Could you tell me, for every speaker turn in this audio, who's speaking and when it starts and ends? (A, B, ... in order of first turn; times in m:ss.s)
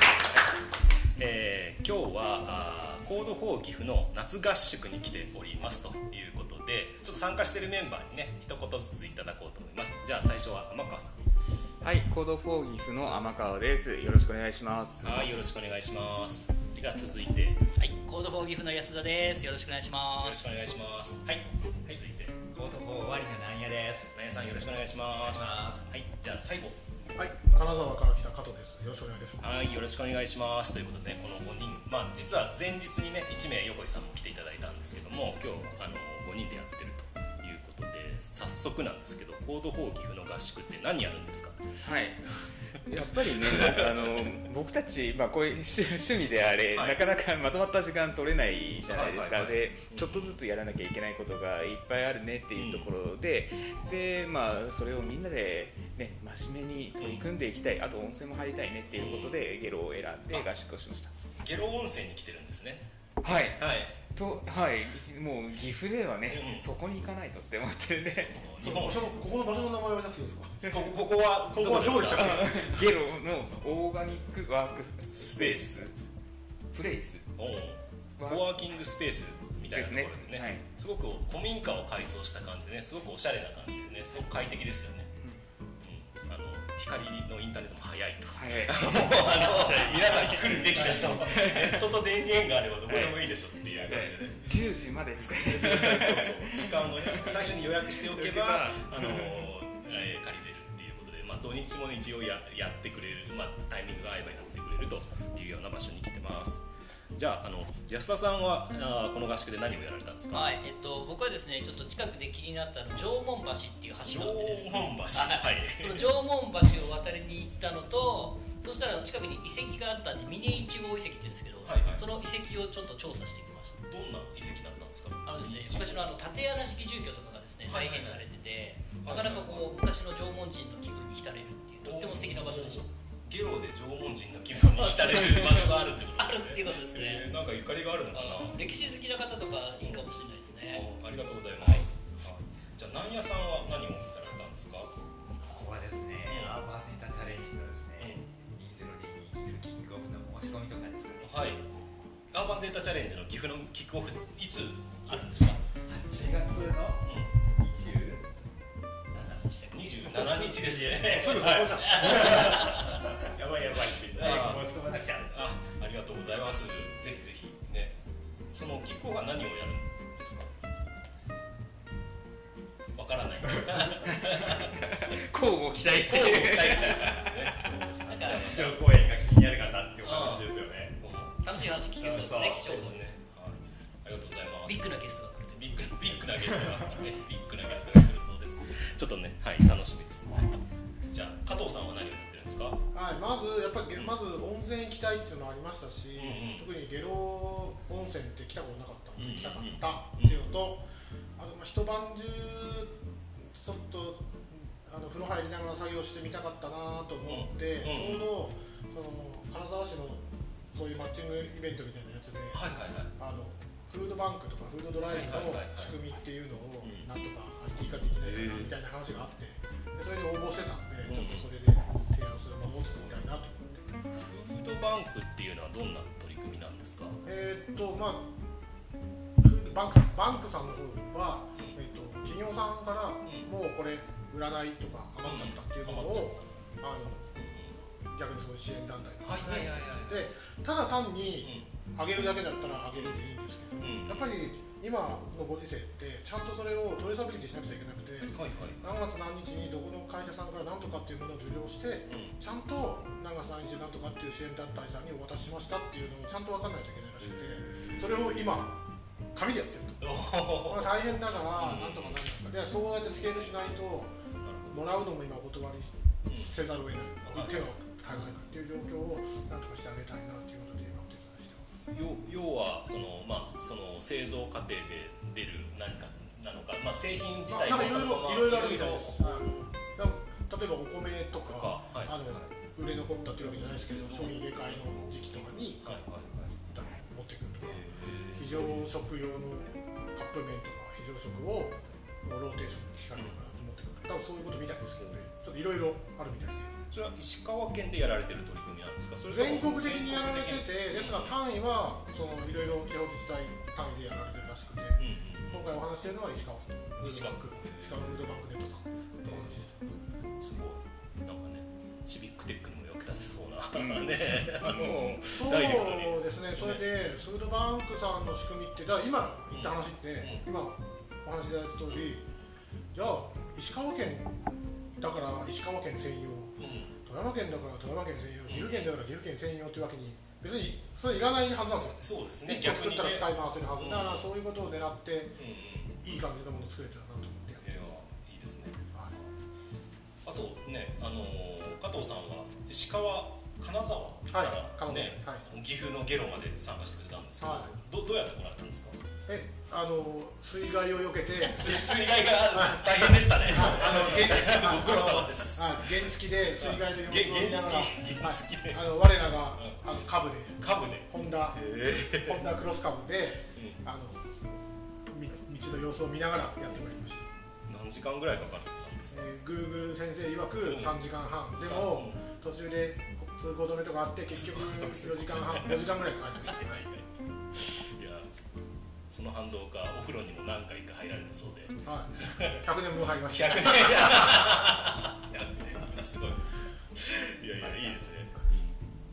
0:01.2-0:11.2 A
0:11.8-0:15.3 B
0:15.0-0:17.6 A
0:17.8-0:20.6 C
0:20.2-0:22.4 A
0:22.6-0:24.1 D
0:24.1-0:26.8 A
0:25.3-0:25.8 D
0:27.2-0:29.8 E
0:29.4-0:41.6 A
0:41.8-1:01.1 B
0:43.4-0:43.7 A
0:46.7-0:47.0 A
0:48.9-0:50.4 A
0:52.6-0:52.9 A
0:57.0-0:57.3 A
0:58.9-0:59.4 A
1:01.4-1:02.8 A
1:03.2-1:08.3 B
1:03.6-1:04.0 A
1:06.3-1:06.7 A
1:08.1-1:09.2 A
1:08.6-1:10.6 E
1:10.7-1:12.9 A
1:11.5-1:12.6 E
1:12.1-1:15.9 B
1:15.2-1:15.9 A
1:16.7-1:17.3 B
1:17.4-1:25.1 A
1:18.2-1:18.5 B
1:19.7-1:20.6 B
1:25.8-1:34.4 A
1:28.4-1:31.9 B
1:32.9-1:33.2 B
1:33.8-1:39.4 B
1:35.3-1:46.6 A
1:47.2-1:50.5 A
1:50.3-2:03.8 C
1:54.1-1:56.1 A
2:01.7-2:02.0 A
2:03.9-2:06.1 A
2:05.3-2:12.9 C
2:07.7-2:08.2 A
2:09.0-2:09.7 A
2:11.8-2:18.6 A
2:14.7-2:17.3 C
2:18.1-2:20.9 C
2:19.8-2:20.1 A
2:20.7-2:24.9 A
2:21.6-2:21.9 C
2:25.5-2:26.1 D
2:25.6-2:31.2 B
2:26.2-2:26.7 A
2:27.0-2:28.0 D
2:28.0-2:28.3 A
2:28.6-2:31.1 D
2:31.2-2:31.6 A
2:32.3-2:35.6 A
2:35.9-2:37.0 D
2:37.0-2:37.3 A
2:37.6-2:38.2 D
2:39.1-2:40.3 C
2:39.7-2:44.8 A
2:40.5-2:45.4 D
2:41.1-2:42.5 E
2:41.7-2:42.1 C
2:44.3-2:44.6 B
2:45.3-2:48.0 A
2:48.5-2:50.5 A
2:53.0-2:54.9 A
2:54.1-2:59.4 B
2:55.8-2:58.9 A
2:57.6-3:00.9 D
2:58.0-2:58.5 C
3:00.0-3:05.0 A
3:00.0-3:00.5 B
3:01.4-3:03.0 C
3:04.7-3:06.0 C
3:05.6-3:10.6 A
3:11.1-3:12.8 A
3:12.9-3:32.6 E
3:16.2-3:16.7 A
3:19.2-3:20.4 A
3:27.3-3:28.3 A
3:32.5-3:33.1 A
3:33.2-3:44.0 E
3:35.1-3:35.9 A
3:36.8-3:37.1 A
3:38.2-3:38.8 A
3:41.1-3:41.5 A
3:44.2-3:47.2 A
3:47.2-3:48.3 E
3:49.4-4:18.8 E
3:55.3-3:56.6 A
3:57.4-3:57.6 A
3:59.2-4:00.3 A
4:03.8-4:04.3 A
4:08.3-4:08.8 A
4:12.1-4:12.4 A
4:17.2-4:18.4 A
4:19.3-4:24.2 E
4:20.0-4:20.9 A
4:21.5-4:22.2 A
4:24.4-4:24.9 A
4:24.7-4:31.7 E
4:26.3-4:26.6 A
4:27.2-4:27.6 A
4:31.9-4:39.6 A
4:37.5-4:46.0 E
4:41.4-4:42.4 A
4:43.4-4:46.5 A
4:46.5-4:56.7 E
4:47.6-4:48.9 A
4:56.9-5:01.4 A
4:59.3-5:09.9 E
5:05.0-5:05.7 A
5:07.0-5:08.1 A
5:10.4-5:16.8 A
5:13.7-5:15.2 B
5:15.2-5:22.3 E
5:19.5-5:20.5 A
5:22.9-5:24.4 E
5:25.0-5:26.5 E
5:26.6-5:26.9 A
5:27.0-5:35.4 E
5:28.5-5:28.9 A
5:32.0-5:34.3 A
5:35.4-5:36.2 A
5:35.9-5:38.0 E
5:37.6-5:38.9 A
5:40.3-5:49.0 A
5:44.3-5:45.4 E
5:47.4-5:47.8 E
5:49.3-6:04.4 E
5:51.4-5:58.9 A
6:00.6-6:02.4 A
6:03.6-6:03.8 A
6:05.1-6:07.3 E
6:07.7-6:09.3 A
6:09.1-6:16.9 E
6:10.6-6:11.0 A
6:11.6-6:12.2 A
6:14.3-6:15.9 A
6:16.4-6:17.1 A
6:17.6-6:18.3 A
6:19.1-6:22.5 A
6:21.8-6:24.2 E
6:23.3-6:26.4 A
6:27.0-6:28.3 A